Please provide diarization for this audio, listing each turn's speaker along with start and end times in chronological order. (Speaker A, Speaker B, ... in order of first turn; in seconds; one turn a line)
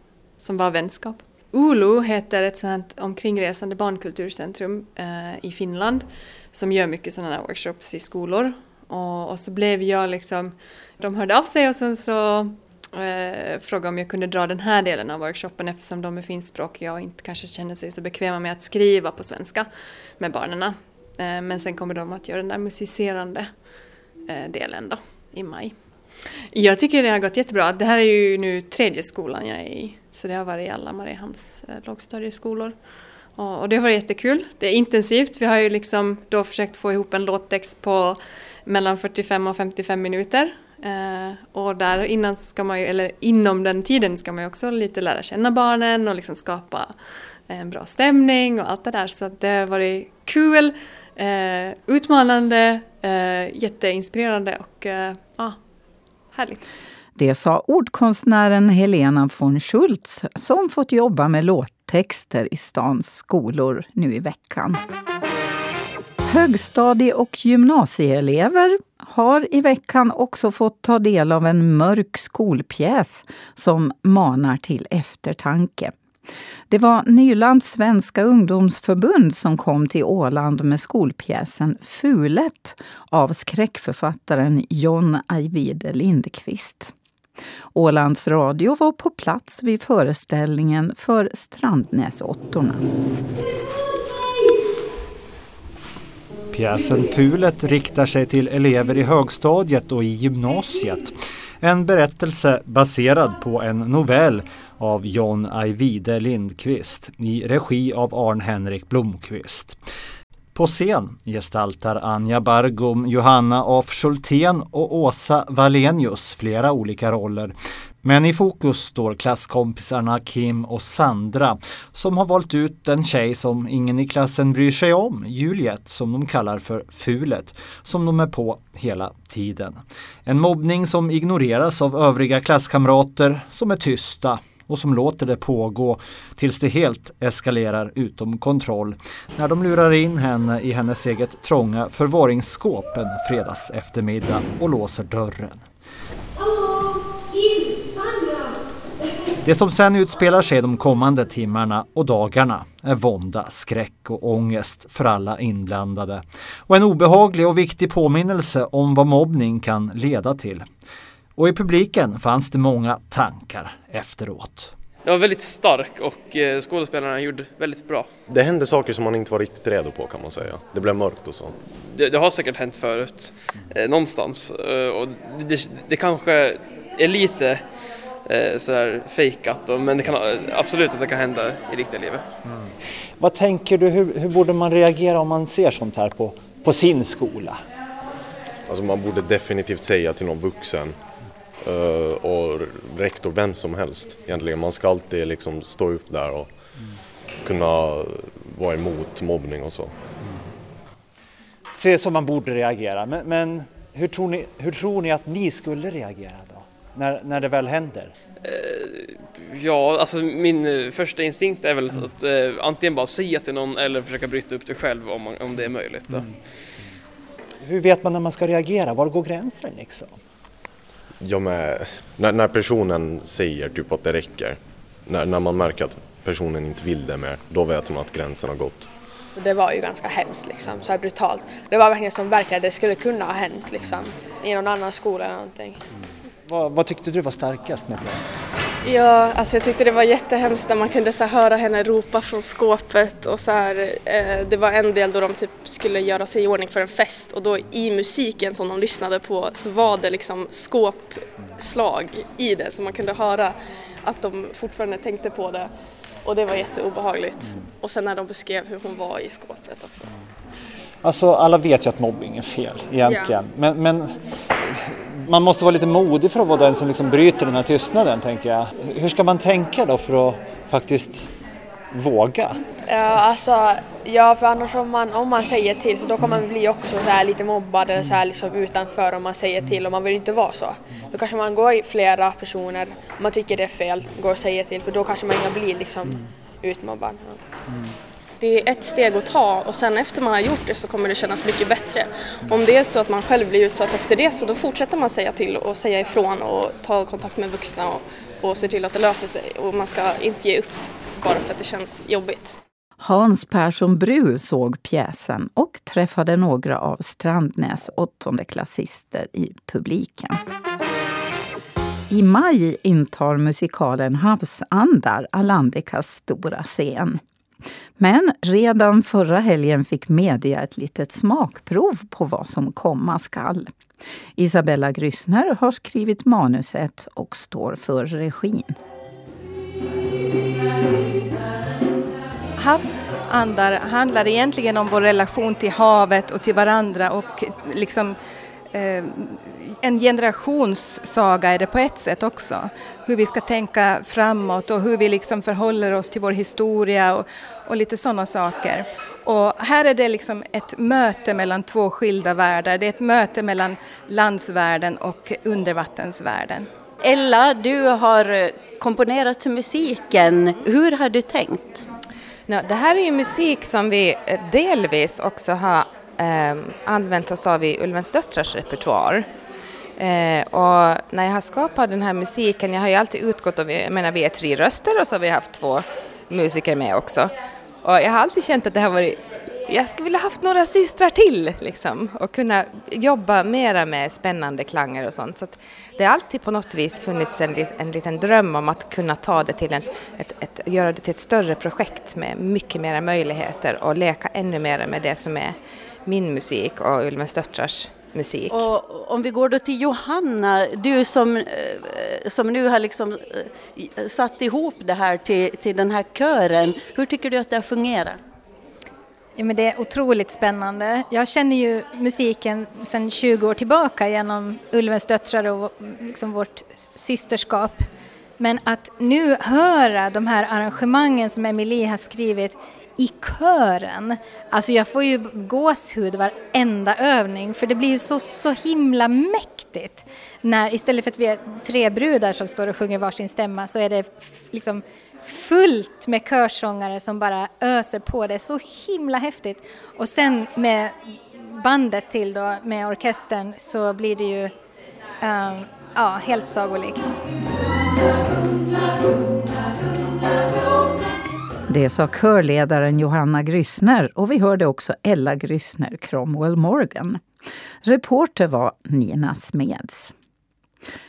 Speaker A: 0.4-23.7
Speaker A: 24.2-25.8
Speaker A: 26.5-32.8
Speaker A: 33.4-55.6
Speaker A: 56.3-56.7
Speaker B: 57.1-64.8
Speaker B: 66.2-75.9
Speaker B: 76.7-86.9
Speaker B: 87.7-92.8
Speaker C: 96.5-109.8
Speaker C: 110.5-145.6
Speaker C: 149.4-160.7
Speaker C: 161.4-164.7
Speaker D: 165.1-168.1
Speaker E: 168.3-171.6
Speaker D: 171.7-177.7
Speaker D: 178.2-182.3
Speaker C: 183.2-187.6
Speaker E: 188.7-191.0
Speaker E: 191.6-196.7
Speaker E: 197.4-199.9
Speaker C: 201.8-208.1
Speaker D: 208.4-216.3
Speaker C: 217.6-220.2
Speaker E: 221.2-228.9
Speaker F: 229.3-235.8
Speaker C: 236.5-238.3
Speaker F: 238.9-240.1
Speaker G: 239.7-255.7
Speaker G: 256.2-260.1
Speaker C: 261.0-271.3
Speaker F: 263.1-263.3
Speaker C: 271.9-272.6
Speaker F: 272.9-287.4
Speaker G: 288.4-302.6
Speaker B: 303.0-310.4
Speaker B: 312.1-317.2
Speaker B: 318.0-323.7
Speaker B: 324.4-328.8
Speaker H: 332.6-338.2
Speaker H: 338.7-356.7
Speaker I: 357.0-361.9
Speaker J: 362.5-369.3
Speaker J: 370.0-377.3
Speaker J: 377.8-398.6
Speaker I: 398.5-408.2
Speaker K: 409.4-417.9
Speaker K: 418.4-444.5
Speaker K: 445.2-447.2
Speaker B: 451.7-457.2
Speaker B: 457.8-460.1